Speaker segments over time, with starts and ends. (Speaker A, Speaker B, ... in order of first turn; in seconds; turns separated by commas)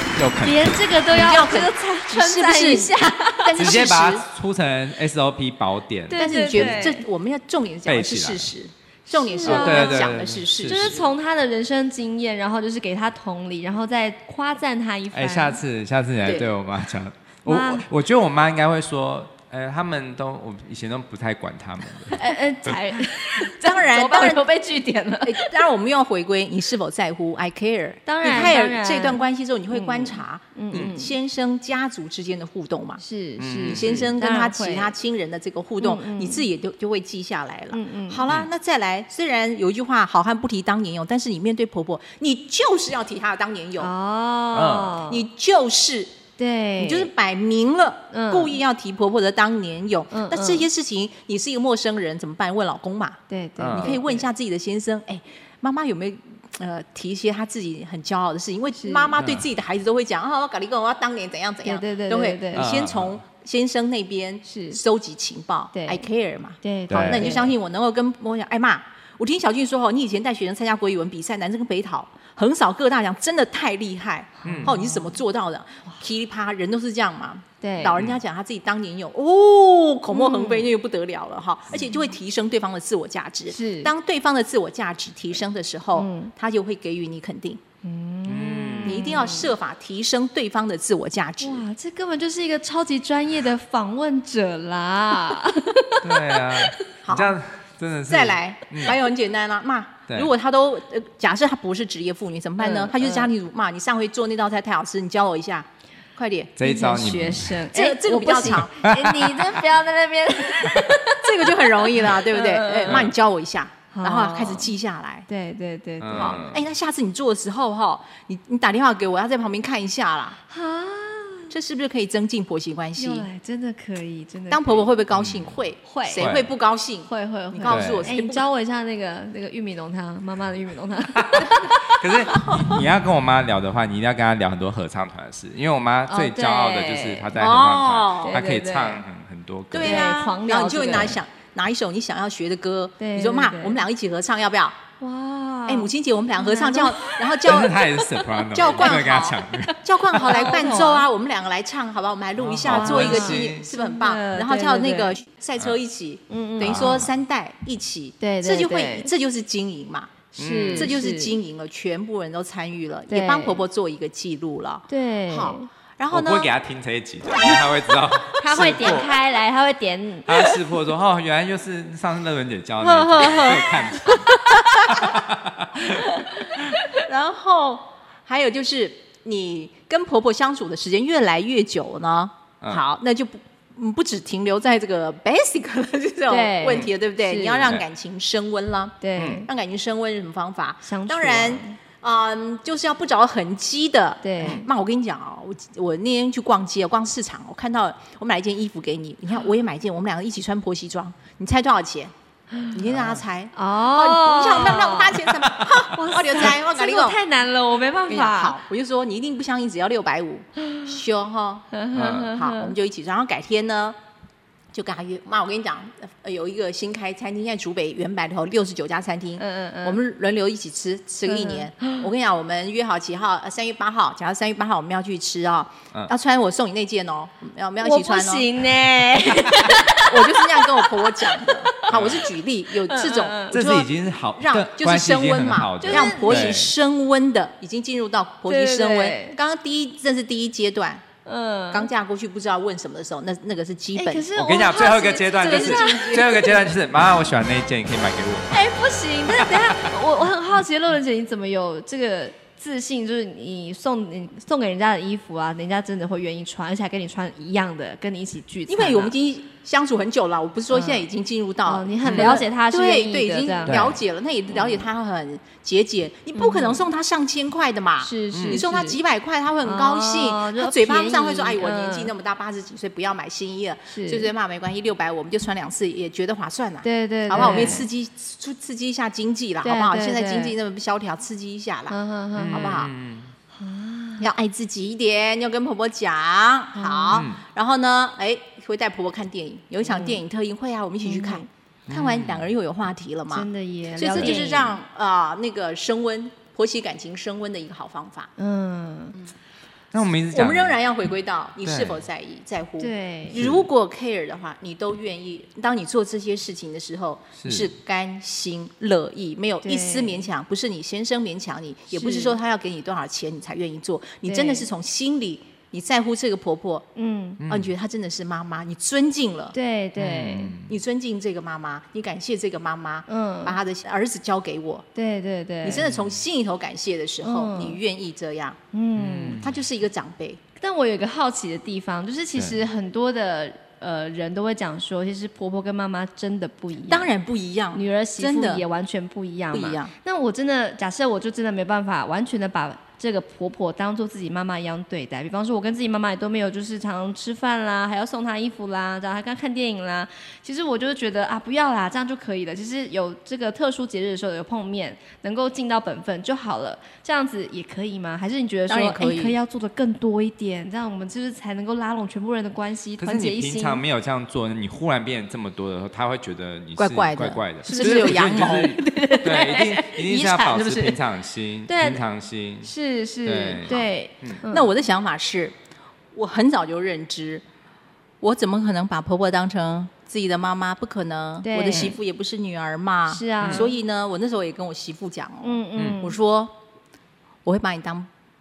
Speaker A: 0.1-0.7, Speaker B: 0.4-3.8, Speaker C: 1.1-4.2, Speaker A: 3.5-6.8, Speaker B: 6.1-7.0, Speaker C: 6.2-11.1, Speaker A: 7.9-8.5, Speaker B: 9.1-15.6, Speaker A: 9.4-11.1, Speaker A: 15.1-22.8, Speaker B: 17.4-17.9, Speaker B: 22.1-25.6, Speaker C: 23.5-24.5, Speaker C: 25.2-33.0, Speaker B: 28.1-31.1, Speaker B: 33.0-35.0, Speaker A: 33.4-34.1, Speaker C: 33.6-43.9, Speaker B: 35.8-36.5, Speaker B: 37.7-38.2, Speaker B: 43.8-45.2, Speaker A: 44.5-45.0, Speaker C: 45.1-46.2, Speaker B: 46.4-47.1, Speaker C: 46.8-53.2, Speaker B: 48.1-48.6, Speaker B: 50.1-50.7, Speaker B: 53.3-54.3, Speaker A: 53.6-54.0, Speaker C: 53.7-87.6, Speaker B: 58.8-59.1, Speaker A: 59.2-59.5, Speaker B: 61.6-62.7, Speaker A: 62.5-63.2, Speaker B: 64.5-64.8, Speaker B: 65.7-66.1, Speaker B: 66.6-67.5, Speaker A: 66.9-67.4, Speaker B: 74.4-75.0, Speaker A: 74.4-74.8, Speaker B: 77.6-78.0, Speaker B: 80.1-80.7, Speaker B: 83.5-83.9, Speaker B: 86.0-86.3, Speaker B: 87.8-89.5, Speaker A: 88.2-89.2, Speaker C: 88.8-91.6, Speaker B: 91.4-96.8, Speaker A: 96.0-99.0, Speaker C: 97.0-97.4, Speaker C: 98.1-106.5, Speaker B: 102.6-103.3, Speaker A: 106.6-107.7, Speaker B: 106.6-113.1, Speaker C: 107.7-108.9, Speaker A: 108.8-109.6, Speaker A: 110.7-111.0, Speaker C: 111.1-115.3, Speaker A: 112.9-113.1, Speaker B: 113.9-114.7, Speaker B: 115.3-116.4, Speaker A: 116.0-116.6, Speaker C: 116.1-120.4, Speaker B: 120.5-121.5, Speaker C: 121.5-123.3, Speaker B: 123.0-124.9, Speaker C: 124.5-128.4, Speaker A: 125.1-125.5, Speaker B: 125.9-126.3, Speaker A: 126.2-126.5, Speaker B: 127.1-132.0, Speaker A: 127.7-128.1, Speaker A: 131.2-140.1, Speaker C: 132.3-132.8, Speaker B: 136.1-137.3, Speaker C: 137.4-138.4, Speaker B: 138.2-139.0, Speaker C: 139.7-144.8, Speaker B: 139.8-141.2, Speaker B: 143.0-143.8, Speaker B: 145.0-147.2, Speaker C: 145.7-166.5, Speaker A: 147.4-149.8, Speaker B: 150.1-151.1, Speaker A: 152.4-153.7, Speaker B: 152.7-155.2, Speaker B: 156.3-157.1, Speaker A: 156.6-157.1, Speaker B: 158.2-159.1, Speaker A: 160.4-161.0, Speaker B: 160.4-161.4, Speaker B: 163.1-163.6, Speaker B: 164.9-165.7, Speaker A: 166.1-169.1, Speaker B: 168.4-170.6, Speaker A: 170.3-176.2, Speaker B: 172.8-174.9, Speaker C: 173.1-173.8, Speaker C: 174.5-175.2, Speaker C: 177.0-202.1, Speaker B: 186.3-187.7, Speaker B: 189.0-189.5, Speaker A: 189.2-189.4, Speaker B: 190.8-191.8, Speaker B: 194.2-194.7, Speaker C: 202.7-207.2, Speaker A: 202.9-203.2, Speaker B: 203.5-205.3, Speaker A: 205.6-205.9, Speaker B: 205.9-208.6, Speaker C: 208.1-214.0, Speaker B: 211.7-212.7, Speaker A: 211.9-212.3, Speaker C: 214.7-228.5, Speaker B: 219.4-220.0, Speaker B: 221.3-222.1, Speaker B: 227.8-232.0, Speaker C: 230.1-241.1, Speaker A: 231.9-232.3, Speaker B: 232.8-233.6, Speaker A: 233.5-236.7, Speaker B: 235.8-236.6, Speaker B: 238.5-239.4, Speaker B: 241.2-241.9, Speaker C: 241.7-244.3, Speaker B: 244.0-246.4, Speaker A: 244.3-248.7, Speaker C: 244.8-246.6, Speaker B: 248.5-259.1, Speaker A: 249.3-250.0, Speaker C: 258.7-282.0, Speaker B: 260.7-261.1, Speaker B: 261.6-263.9, Speaker A: 262.0-262.4, Speaker A: 263.7-264.0, Speaker B: 264.5-264.9, Speaker B: 266.4-266.8, Speaker B: 268.0-269.0, Speaker A: 268.3-268.6, Speaker B: 269.6-272.1, Speaker B: 273.9-274.3, Speaker B: 276.8-277.9, Speaker A: 277.3-277.8, Speaker B: 279.6-280.6, Speaker B: 281.9-282.8, Speaker A: 282.4-283.3, Speaker C: 282.5-282.9, Speaker B: 283.6-284.3, Speaker C: 284.2-298.3, Speaker B: 286.8-287.2, Speaker A: 287.1-287.4, Speaker B: 289.8-290.2, Speaker B: 291.1-291.4, Speaker A: 291.9-292.5, Speaker B: 293.3-294.8, Speaker A: 294.1-294.5, Speaker B: 298.4-299.2, Speaker A: 299.9-300.8, Speaker C: 300.3-316.9, Speaker A: 301.6-302.0, Speaker B: 302.8-303.4, Speaker A: 303.4-303.6, Speaker A: 307.4-307.7, Speaker B: 309.6-310.3, Speaker B: 311.9-312.4, Speaker B: 314.3-314.7, Speaker B: 316.9-317.4, Speaker A: 317.4-317.7, Speaker C: 317.4-319.6, Speaker B: 319.5-320.6, Speaker A: 320.0-320.8, Speaker C: 320.6-324.9, Speaker B: 323.1-323.6, Speaker B: 324.9-325.9, Speaker C: 325.6-328.6, Speaker A: 325.8-326.1, Speaker B: 327.2-327.8, Speaker B: 328.7-329.4, Speaker A: 328.9-329.6, Speaker C: 329.4-330.4, Speaker B: 330.6-337.1, Speaker A: 332.4-332.6, Speaker C: 336.8-338.6, Speaker B: 337.7-363.8, Speaker C: 339.5-339.9, Speaker C: 358.7-359.4, Speaker A: 363.0-372.7, Speaker C: 366.8-369.6, Speaker B: 367.7-370.7, Speaker C: 370.1-371.0, Speaker B: 371.7-372.0, Speaker B: 372.6-374.7, Speaker A: 373.2-374.4, Speaker C: 374.5-375.6, Speaker C: 376.1-377.4, Speaker C: 378.2-386.6, Speaker B: 381.4-381.9, Speaker B: 383.1-383.7, Speaker A: 383.4-383.7, Speaker B: 385.4-386.2, Speaker C: 387.4-388.1